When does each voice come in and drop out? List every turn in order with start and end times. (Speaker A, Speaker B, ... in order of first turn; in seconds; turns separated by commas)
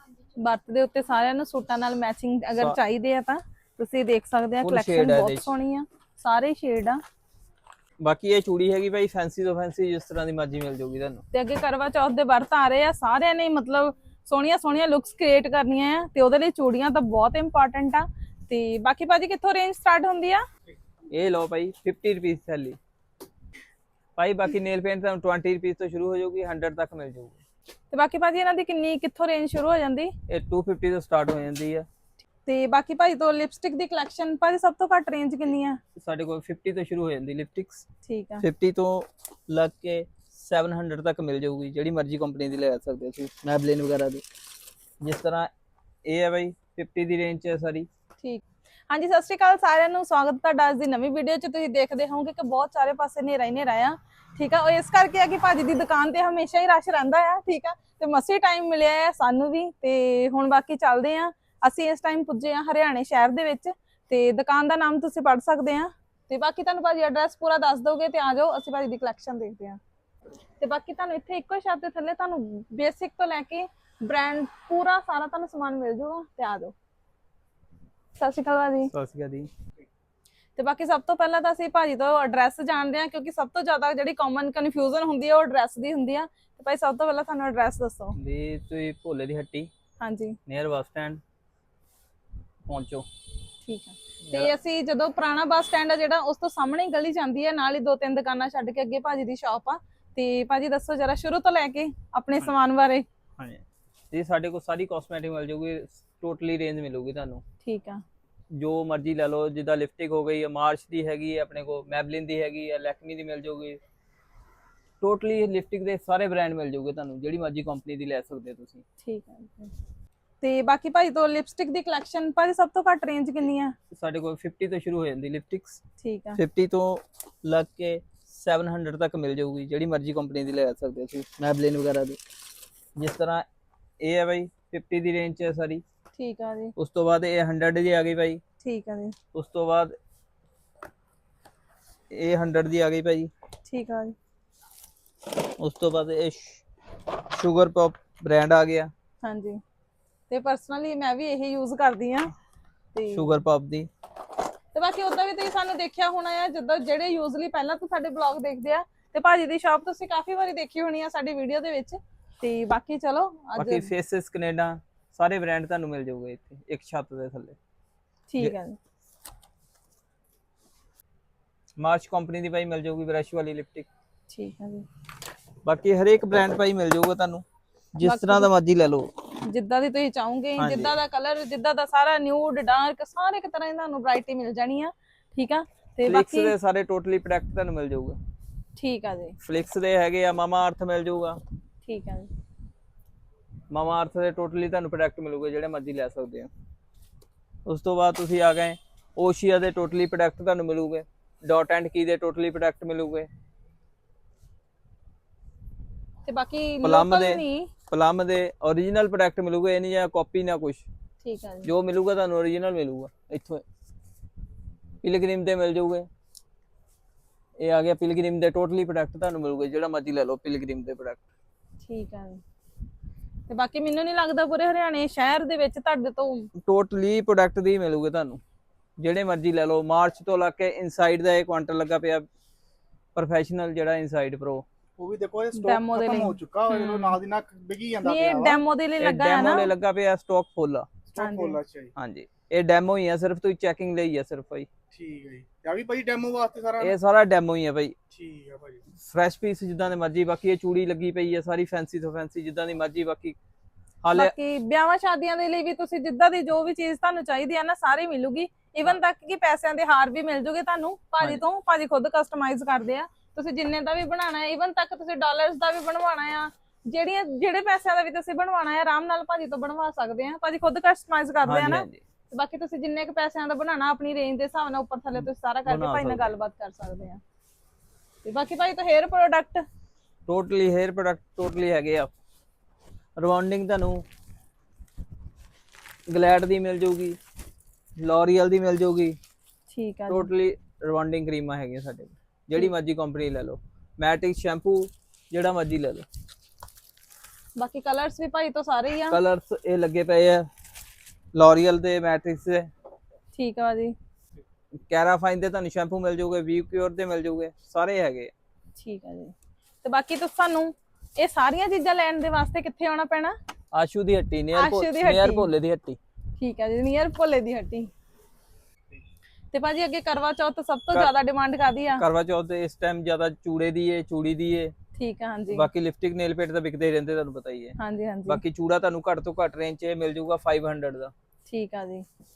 Speaker A: 0.4-7.0, Speaker B: 4.6-5.5, Speaker B: 8.0-11.2, Speaker A: 11.3-20.4, Speaker B: 21.1-22.8, Speaker B: 24.2-27.4, Speaker A: 27.9-30.1, Speaker B: 30.3-31.9, Speaker A: 32.5-35.8, Speaker B: 35.9-37.8, Speaker A: 38.0-38.4, Speaker B: 38.4-44.2, Speaker B: 45.0-45.5, Speaker B: 46.0-47.9, Speaker A: 48.2-69.8, Speaker A: 70.6-76.7, Speaker A: 78.2-78.9, Speaker B: 78.9-79.5, Speaker A: 80.6-88.2, Speaker B: 88.2-89.7, Speaker A: 90.0-90.4, Speaker B: 90.5-91.2, Speaker B: 92.7-93.0, Speaker A: 93.6-103.0, Speaker B: 94.2-94.5, Speaker B: 103.4-107.4, Speaker A: 107.6-108.0, Speaker B: 108.5-113.8, Speaker B: 115.0-118.8, Speaker A: 119.0-119.7, Speaker A: 120.4-123.8, Speaker B: 123.9-125.8, Speaker A: 126.0-126.4, Speaker B: 126.3-132.2, Speaker B: 132.9-133.4, Speaker B: 134.0-135.8, Speaker A: 136.2-136.7, Speaker B: 136.8-138.4, Speaker A: 138.6-139.2, Speaker B: 139.3-139.9, Speaker B: 142.1-143.3, Speaker A: 143.7-144.1, Speaker B: 145.6-146.6, Speaker B: 147.2-148.9, Speaker A: 149.2-149.6, Speaker A: 150.3-152.3, Speaker A: 152.9-153.3, Speaker B: 153.1-153.9, Speaker A: 154.7-163.9, Speaker B: 163.6-167.6, Speaker A: 168.3-168.8, Speaker B: 171.8-173.9, Speaker A: 174.3-174.8, Speaker B: 175.6-179.1, Speaker A: 178.0-178.5, Speaker A: 179.4-186.5, Speaker B: 180.6-180.9, Speaker B: 186.0-188.2, Speaker A: 188.8-189.4, Speaker B: 189.4-191.4, Speaker A: 191.8-192.3, Speaker B: 193.7-196.5, Speaker B: 197.7-203.3, Speaker A: 206.2-207.7, Speaker B: 206.8-210.9, Speaker A: 211.2-211.7, Speaker B: 211.6-213.6, Speaker B: 215.0-216.1, Speaker B: 217.6-221.2, Speaker A: 221.8-222.4, Speaker A: 223.5-226.5, Speaker B: 226.6-228.4, Speaker B: 229.0-232.3, Speaker B: 233.1-234.7, Speaker C: 235.0-238.6, Speaker A: 235.5-237.2, Speaker A: 238.0-239.7, Speaker B: 239.0-240.9, Speaker C: 241.1-241.9, Speaker A: 241.2-241.6, Speaker B: 241.9-244.7, Speaker C: 244.9-246.9, Speaker B: 246.8-247.9, Speaker C: 248.1-248.8, Speaker B: 249.0-253.4, Speaker B: 254.0-254.3, Speaker A: 254.1-277.2, Speaker B: 271.4-272.0, Speaker B: 275.2-276.3, Speaker A: 278.2-279.6, Speaker B: 280.3-282.1, Speaker B: 283.2-284.0, Speaker B: 286.1-287.2, Speaker B: 288.0-289.2, Speaker A: 289.7-290.3, Speaker B: 290.1-296.0, Speaker A: 297.6-299.2, Speaker B: 299.1-300.5, Speaker B: 301.3-302.7, Speaker A: 303.3-303.9, Speaker B: 304.9-308.3, Speaker A: 308.8-313.4, Speaker B: 313.7-316.0, Speaker A: 314.5-315.5, Speaker A: 316.4-317.9, Speaker A: 319.5-322.0, Speaker B: 322.0-324.7, Speaker A: 324.9-325.7, Speaker B: 325.5-331.1, Speaker A: 327.8-328.4, Speaker A: 331.5-332.0